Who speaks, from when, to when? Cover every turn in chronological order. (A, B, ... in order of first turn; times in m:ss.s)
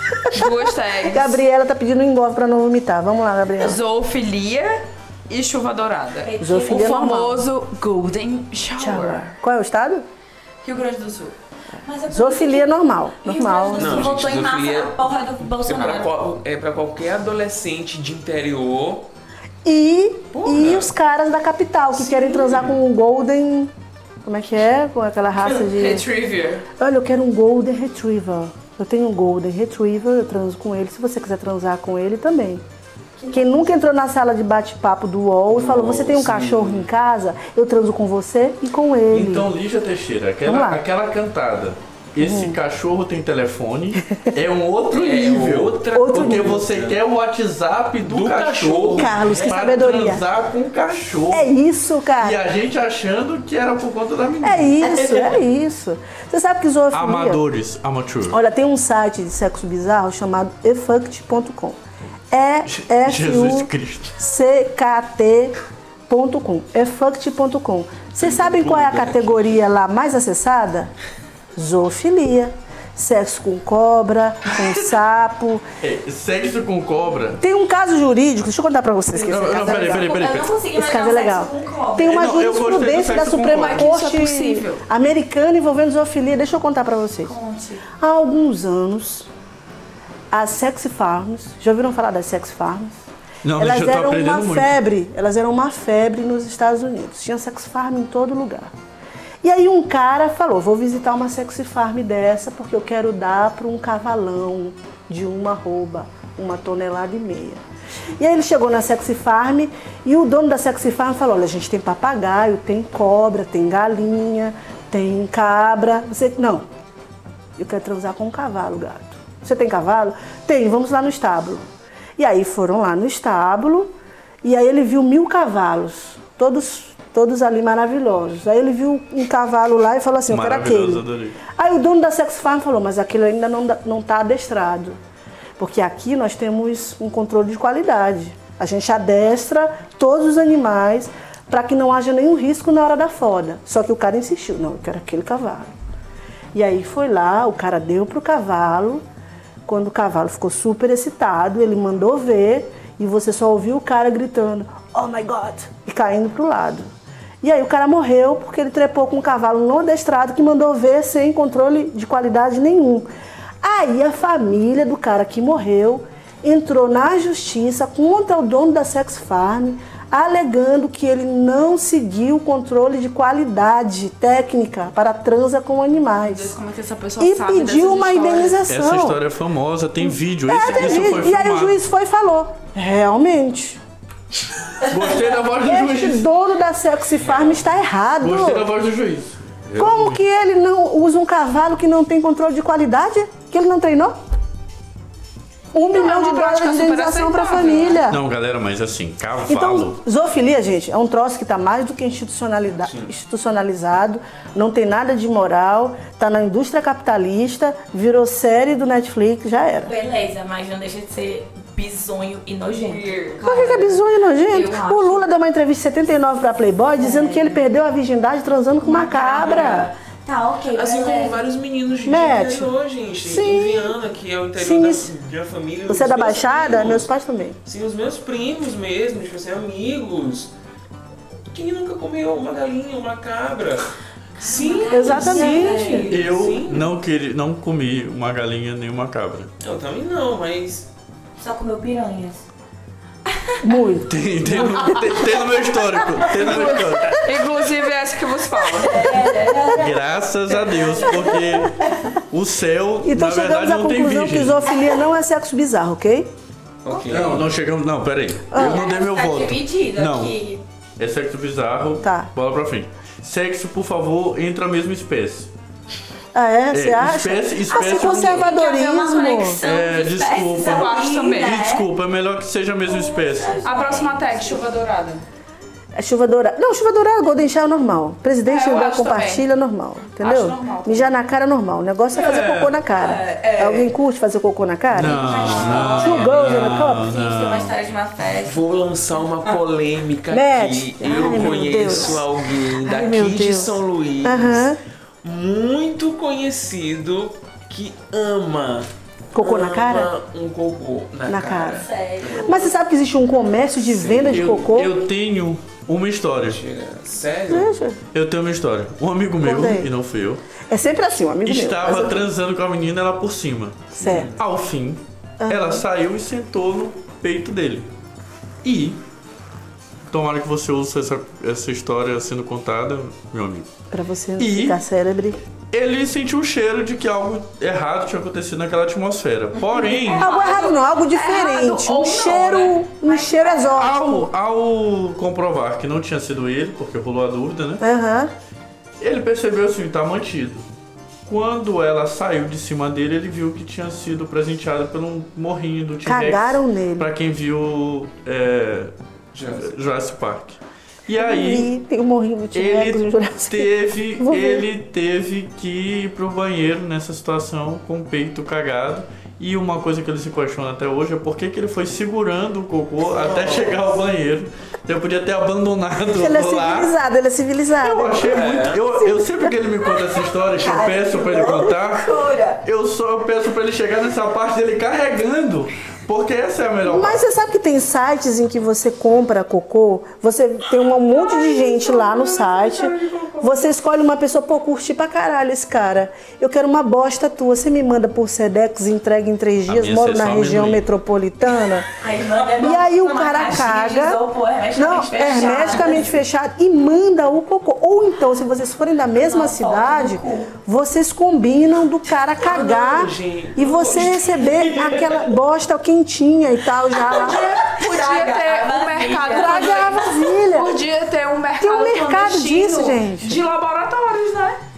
0:00.3-0:01.4 A
0:01.0-0:03.8 B
0:03.6-0:09.2 A
0:06.2-0:07.1 C
0:06.4-0:07.4 B
0:08.8-0:10.0 B
0:10.6-0:11.4 A
0:11.8-0:16.1 C
0:12.1-0:14.1 B
0:13.7-0:19.1 D
0:19.6-0:23.7 B
0:20.3-0:20.9 D
0:24.2-0:26.1 B
0:25.4-0:26.6 A
0:26.7-0:32.6 B
0:33.2-0:33.6 C
0:33.3-0:39.5 B
0:35.5-0:36.9 D
0:39.1-0:51.5 E
0:40.4-0:40.8 B
0:42.2-0:42.6 B
0:44.9-0:47.0 D
0:45.9-0:46.6 B
0:48.0-0:49.8 D
0:48.9-0:50.2 B
0:51.3-0:52.4 B
0:52.2-0:55.1 E
0:54.4-0:57.4 B
0:56.9-0:58.4 E
0:58.3-1:01.8 B
1:02.3-1:05.6 B
1:02.7-1:04.2 E
1:06.1-1:10.9 B
1:08.2-1:09.6 D
1:11.6-1:15.6 B
1:15.8-1:17.4 E
1:17.4-1:20.1 B
1:19.2-1:20.6 E
1:19.4-1:22.3 C
1:20.7-1:27.3 B
1:22.1-1:23.8 E
1:23.5-1:24.8 A
1:27.2-1:27.9 C
1:28.0-1:29.3 B
1:30.3-1:33.0 B
1:33.4-1:34.8 E
1:33.6-1:38.7 B
1:39.4-1:47.6 B
1:48.2-1:56.6 B
1:57.6-2:01.6 B
2:02.2-2:03.9 B
2:04.4-2:15.0 B
2:10.3-2:11.4 E
2:15.6-2:25.7 B
2:26.5-2:29.0 B
2:29.6-2:36.9 B
2:37.4-2:43.0 B
2:43.6-2:56.6 B
2:56.2-2:58.6 A
2:57.2-2:59.2 B
2:58.7-3:01.8 E
3:00.0-3:03.8 B
3:04.8-3:06.2 E
3:05.6-3:08.7 B
3:07.2-3:07.8 D
3:08.2-3:10.2 E
3:09.8-3:14.1 B
3:15.7-3:18.2 B
3:15.8-3:18.0 A
3:18.1-3:20.0 E
3:19.4-3:29.9 B
3:22.9-3:23.1 D
3:29.8-3:35.2 C
3:32.8-3:33.5 A
3:33.4-3:39.9 B
3:37.0-3:37.6 C
3:38.8-3:41.4 C
3:39.4-3:39.8 D
3:40.7-3:47.1 D
3:42.0-3:42.7 B
3:43.2-3:44.0 B
3:44.6-3:45.1 B
3:45.9-3:47.6 B
3:47.6-3:50.5 D
3:51.5-3:56.9 D
3:54.4-3:56.3 C
3:54.9-3:56.1 B
3:56.1-3:59.5 E
3:59.6-4:00.9 D
4:01.4-4:02.4 C
4:03.6-4:05.2 B
4:04.0-4:07.3 E
4:06.0-4:06.6 C
4:06.3-4:09.4 A
4:08.7-4:12.1 C
4:09.7-4:14.6 E
4:13.0-4:16.3 B
4:16.8-4:17.4 D
4:16.9-4:17.4 C
4:17.1-4:20.4 E
4:18.5-4:18.9 B
4:18.5-4:20.6 C
4:21.0-4:25.5 E
4:22.0-4:22.3 B
4:26.3-4:29.6 B
4:26.7-4:28.6 E
4:27.7-4:31.9 C
4:29.6-4:33.6 E
4:30.6-4:31.6 A
4:32.8-4:34.6 C
4:33.6-4:35.2 A
4:35.9-4:47.1 B
4:38.4-4:39.4 A
4:40.2-4:41.1 A
4:42.3-4:42.7 E
4:42.9-4:43.8 A
4:44.9-4:47.8 E
4:45.0-4:48.6 C
4:48.4-4:54.7 D
4:50.3-4:52.2 B
4:52.8-4:54.8 B
4:55.2-5:02.6 D
4:59.3-5:00.1 B
5:01.3-5:01.9 B
5:01.8-5:02.7 C
5:02.4-5:05.0 B
5:03.8-5:04.7 D
5:04.3-5:06.6 E
5:06.5-5:07.7 D
5:07.5-5:08.0 B
5:08.1-5:10.4 E
5:09.4-5:09.9 B
5:10.6-5:12.3 B
5:11.4-5:17.9 E
5:14.0-5:14.4 D
5:14.0-5:14.3 B
5:15.4-5:15.8 B
5:18.6-5:19.0 E
5:20.1-5:23.7 E
5:23.9-5:25.4 B
5:24.4-5:24.8 E
5:25.7-5:30.3 E
5:29.9-5:33.9 C
5:30.0-5:30.8 A
5:30.1-5:34.3 B
5:33.8-5:37.8 E
5:37.8-5:38.3 B
5:39.0-5:40.6 E
5:41.2-5:48.9 E
5:46.0-5:47.1 B
5:49.3-5:49.8 D
5:49.5-5:51.7 E
5:51.2-5:54.6 B
5:52.5-6:06.9 E
6:03.1-6:03.8 D
6:06.1-6:08.3 B
6:07.8-6:17.2 E
6:08.2-6:08.9 D
6:10.1-6:12.6 C
6:16.8-6:31.9 B
6:21.3-6:23.5 A
6:29.7-6:30.8 E
6:32.0-6:36.1 C
6:32.6-6:34.2 B
6:34.7-6:47.6 B
6:39.2-6:40.5 C
6:42.4-6:45.2 D
6:47.0-6:50.2 C
6:47.1-6:54.6 A
6:49.3-6:50.8 B
6:51.6-6:53.4 B